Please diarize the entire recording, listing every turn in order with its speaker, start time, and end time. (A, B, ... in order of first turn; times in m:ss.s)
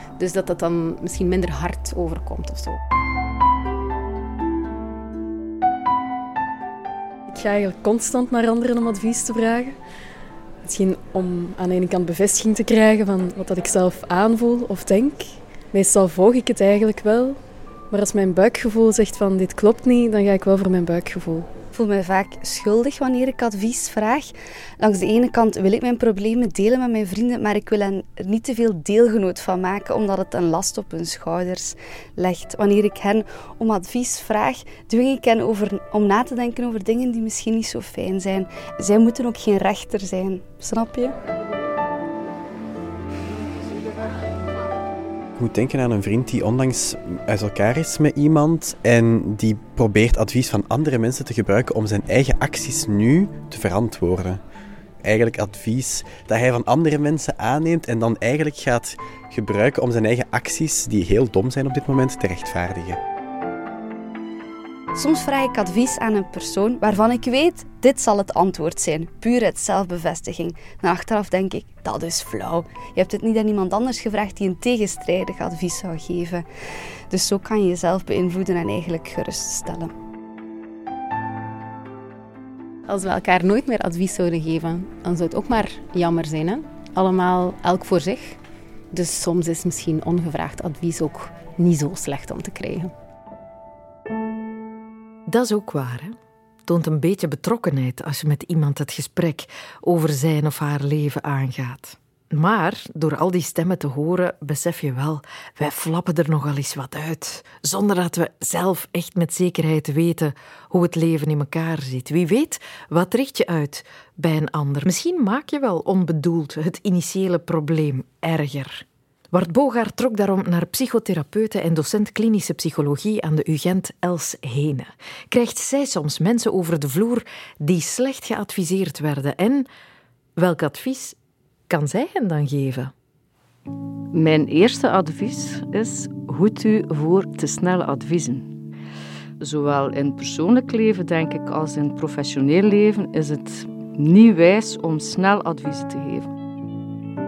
0:00.2-0:02.7 A
0:07.3-0:09.8 B
0:10.6-0:17.4 B
0:17.9-0:21.5 B
0:21.7-0:41.1 C
0:45.4-0:54.4 D
0:55.0-1:03.0 D
1:04.9-1:16.5 C
1:17.1-1:19.9 C
1:22.9-1:28.2 A
1:28.9-1:32.9 A
1:35.3-1:36.1 E
1:36.6-2:09.7 E
2:10.4-2:11.2 E
2:11.7-2:12.9 E
2:14.1-2:18.5 F
2:19.4-2:26.3 F